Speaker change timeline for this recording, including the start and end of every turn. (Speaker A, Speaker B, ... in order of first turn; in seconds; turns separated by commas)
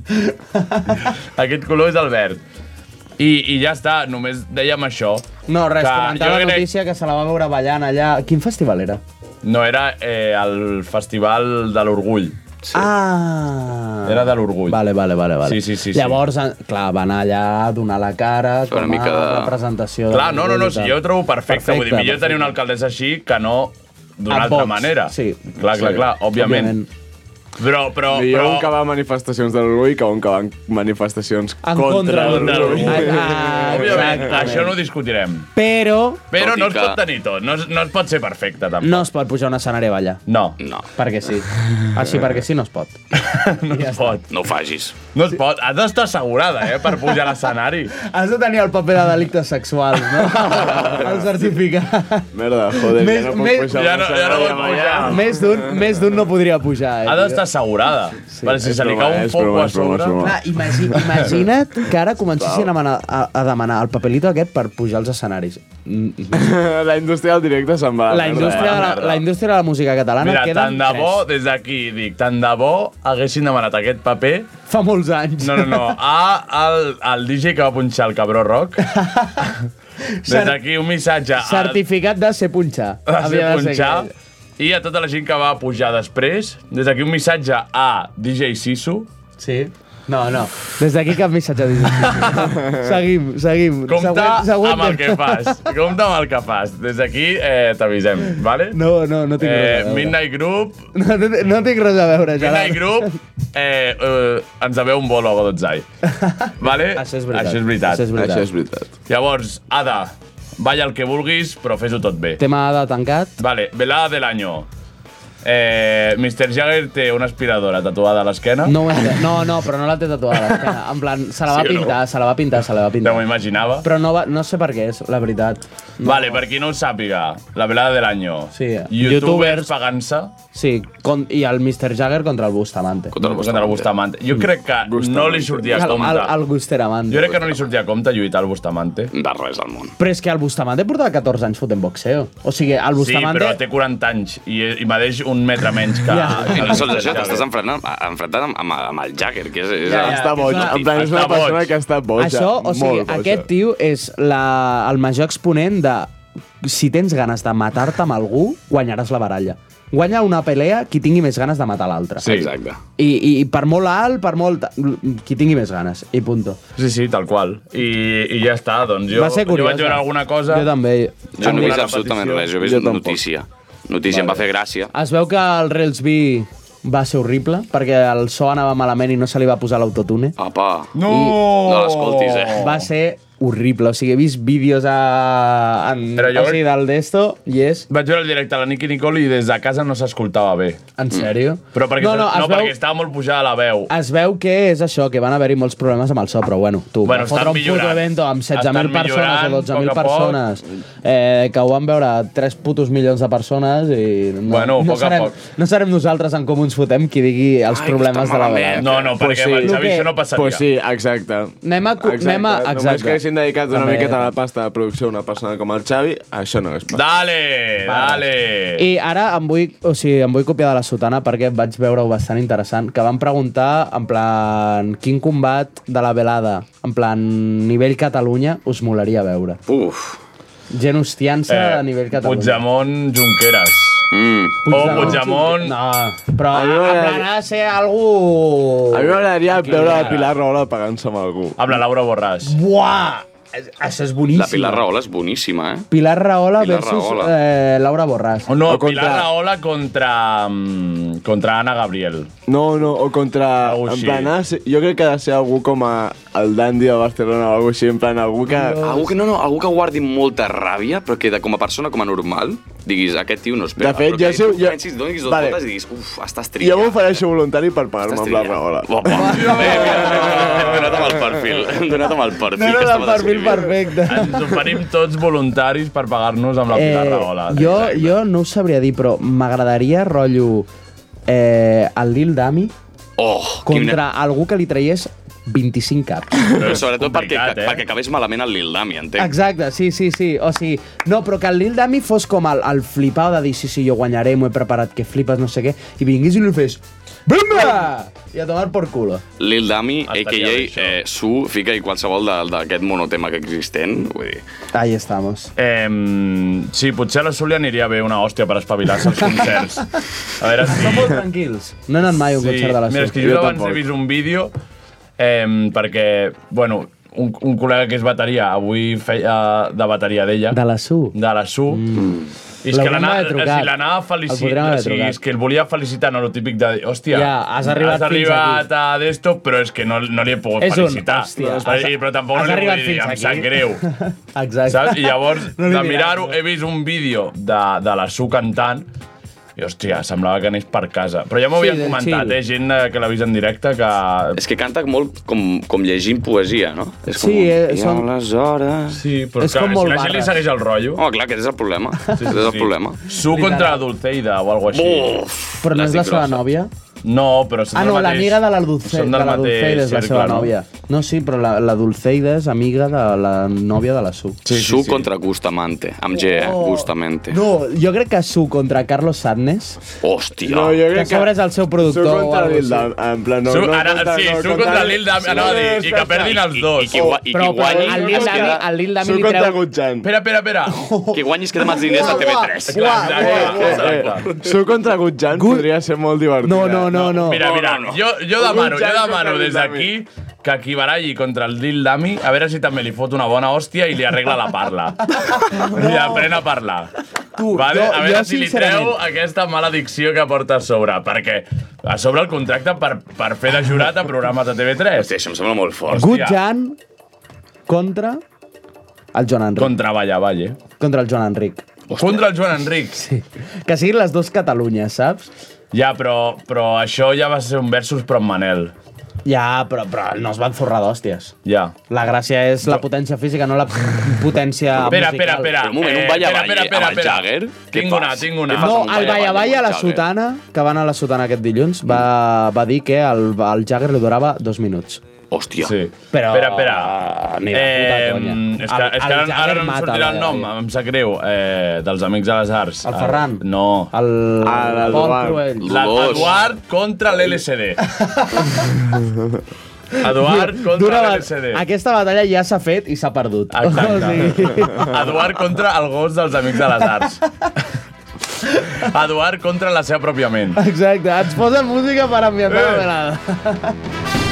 Speaker A: 0.1-1.0, Speaker B: 1.1-2.4, Speaker B: 3.2-5.3, Speaker A: 5.5-9.0, Speaker B: 5.8-6.7, Speaker B: 9.4-12.9, Speaker A: 12.7-22.6, Speaker B: 14.1-14.8, Speaker B: 15.4-16.2, Speaker C: 18.7-19.5, Speaker B: 20.1-26.7, Speaker A: 24.3-26.9, Speaker B: 27.6-28.7, Speaker D: 28.1-34.2, Speaker A: 31.6-34.7, Speaker B: 32.0-35.5, Speaker A: 35.5-36.2, Speaker B: 36.3-39.1, Speaker C: 36.4-37.0, Speaker A: 38.8-40.2, Speaker B: 40.3-40.6, Speaker C: 40.6-40.9, Speaker A: 41.0-43.0, Speaker B: 43.1-44.2, Speaker A: 43.7-44.2, Speaker C: 44.3-45.0, Speaker B: 45.1-47.9, Speaker A: 48.0-53.8, Speaker B: 50.2-51.0, Speaker D: 52.3-55.9, Speaker B: 53.7-55.2, Speaker A: 55.0-57.4, Speaker B: 57.0-60.3, Speaker A: 58.3-58.6, Speaker D: 58.6-61.2, Speaker A: 60.2-66.5, Speaker D: 62.4-62.7, Speaker D: 66.3-68.9, Speaker A: 68.1-71.2, Speaker B: 68.2-69.2, Speaker B: 70.2-74.5, Speaker A: 74.7-75.9, Speaker B: 75.4-78.8, Speaker A: 78.9-80.6, Speaker B: 80.3-81.8, Speaker A: 81.4-84.1, Speaker B: 83.1-89.1, Speaker A: 89.4-95.6, Speaker B: 92.1-92.5, Speaker B: 93.9-98.8, Speaker A: 98.7-100.2, Speaker B: 99.4-100.8, Speaker A: 100.9-103.1, Speaker B: 102.4-105.8, Speaker A: 106.1-108.5, Speaker B: 106.6-108.0, Speaker D: 108.1-108.9, Speaker B: 109.1-112.4, Speaker A: 112.4-113.4, Speaker B: 113.4-114.7, Speaker B: 115.4-118.8, Speaker A: 118.6-123.2, Speaker B: 121.5-121.9, Speaker B: 123.0-123.8, Speaker A: 123.8-126.4, Speaker B: 126.0-130.3, Speaker A: 128.5-129.7, Speaker A: 130.5-133.1, Speaker C: 133.1-133.9, Speaker B: 133.2-136.4, Speaker D: 134.8-136.0, Speaker A: 135.7-137.4, Speaker B: 137.1-139.1, Speaker C: 139.1-139.9, Speaker A: 140.0-143.6, Speaker B: 143.0-147.4, Speaker A: 146.1-147.2, Speaker C: 146.4-150.3, Speaker D: 149.8-153.5, Speaker A: 149.9-150.7, Speaker B: 149.9-151.7, Speaker A: 152.2-162.2, Speaker B: 162.2-162.5, Speaker C: 162.2-162.8, Speaker A: 163.0-166.6, Speaker B: 166.8-170.7, Speaker A: 169.1-171.6, Speaker B: 171.4-172.5, Speaker C: 171.4-174.9, Speaker D: 172.6-173.2, Speaker A: 174.9-180.3, Speaker C: 180.4-180.9, Speaker B: 180.9-182.8, Speaker A: 181.1-181.4, Speaker C: 181.6-182.7, Speaker A: 182.6-187.9, Speaker B: 186.2-186.6, Speaker B: 187.9-190.8, Speaker A: 191.0-192.7, Speaker B: 191.7-193.9, Speaker A: 193.9-208.9, Speaker B: 197.0-200.4, Speaker B: 204.4-205.3, Speaker C: 207.7-209.2, Speaker B: 208.8-210.6, Speaker D: 209.2-217.0, Speaker A: 209.6-210.1, Speaker A: 211.6-214.3, Speaker B: 216.9-218.8, Speaker A: 217.8-229.6, Speaker C: 229.7-230.2, Speaker A: 230.7-232.6, Speaker B: 231.5-234.1, Speaker C: 234.1-234.6, Speaker A: 234.7-240.2, Speaker B: 234.7-235.7, Speaker D: 236.5-237.3, Speaker D: 238.9-241.6, Speaker B: 239.7-240.2, Speaker B: 241.6-242.5, Speaker A: 242.4-244.8, Speaker C: 244.3-245.9, Speaker A: 245.9-248.5, Speaker C: 246.6-247.3, Speaker B: 248.5-252.3, Speaker D: 248.7-249.3, Speaker D: 252.5-259.0, Speaker B: 253.6-254.3, Speaker A: 258.5-259.0, Speaker C: 258.8-267.2, Speaker D: 263.8-265.6, Speaker D: 266.6-270.9, Speaker C: 268.1-273.7, Speaker A: 269.1-270.1, Speaker B: 269.3-271.1, Speaker A: 272.5-274.5, Speaker B: 274.1-278.1, Speaker A: 276.7-280.7, Speaker A: 281.3-282.7, Speaker C: 283.2-284.0, Speaker A: 283.6-286.4, Speaker C: 286.5-289.3, Speaker B: 286.5-287.8, Speaker A: 289.2-299.2, Speaker C: 299.4-304.4, Speaker B: 300.1-301.0, Speaker A: 304.7-305.5, Speaker B: 305.6-311.2, Speaker A: 310.7-313.2, Speaker B: 312.4-314.5, Speaker D: 313.2-313.8, Speaker B: 315.2-320.6, Speaker A: 320.5-321.1, Speaker B: 321.1-321.8, Speaker A: 321.7-323.7, Speaker B: 322.6-333.8, Speaker A: 324.3-325.2, Speaker A: 327.1-328.6, Speaker A: 330.6-336.4, Speaker D: 331.4-331.8, Speaker B: 334.7-338.9, Speaker B: 339.6-344.4, Speaker A: 341.6-342.4, Speaker C: 344.3-349.0, Speaker A: 347.1-348.1, Speaker B: 348.9-351.0, Speaker A: 349.4-350.3, Speaker C: 350.9-353.0, Speaker B: 352.2-355.2, Speaker A: 353.2-353.8, Speaker C: 354.7-356.4, Speaker A: 355.6-356.7, Speaker B: 357.0-360.5, Speaker A: 357.7-364.4, Speaker B: 364.4-365.0, Speaker C: 364.5-367.4, Speaker A: 366.1-369.8, Speaker C: 370.0-370.8, Speaker D: 370.4-376.4, Speaker A: 370.9-372.9, Speaker B: 373.4-377.0, Speaker C: 375.2-378.6, Speaker D: 376.9-380.1, Speaker A: 377.3-379.6, Speaker B: 380.0-380.8, Speaker A: 380.7-383.9, Speaker C: 381.1-384.4, Speaker B: 382.7-384.3, Speaker D: 383.1-387.1, Speaker A: 385.3-385.7, Speaker A: 386.4-387.4, Speaker B: 387.1-396.9, Speaker C: 387.3-388.0, Speaker D: 388.4-389.9, Speaker A: 395.5-396.2, Speaker A: 397.4-398.9, Speaker B: 397.5-405.1, Speaker C: 404.9-406.1, Speaker B: 405.9-406.4, Speaker A: 405.9-406.8, Speaker A: 407.7-408.2, Speaker A: 409.1-409.7, Speaker B: 409.6-410.6, Speaker A: 410.8-411.6, Speaker C: 411.9-412.3, Speaker B: 411.9-413.0, Speaker A: 412.9-415.3, Speaker B: 415.7-418.7, Speaker A: 419.2-421.3, Speaker B: 421.4-421.7, Speaker A: 421.9-425.5, Speaker B: 424.8-429.2, Speaker C: 425.5-430.0, Speaker A: 428.5-435.0, Speaker C: 435.3-435.7, Speaker B: 435.6-436.9, Speaker A: 436.1-440.5, Speaker B: 437.5-443.9, Speaker A: 442.8-445.7, Speaker D: 444.4-445.4, Speaker C: 445.6-446.4, Speaker B: 445.7-447.9, Speaker A: 447.9-448.7, Speaker D: 448.9-449.4, Speaker A: 450.0-454.9, Speaker B: 450.0-451.6, Speaker B: 453.5-457.2, Speaker B: 458.8-460.6, Speaker A: 460.6-463.8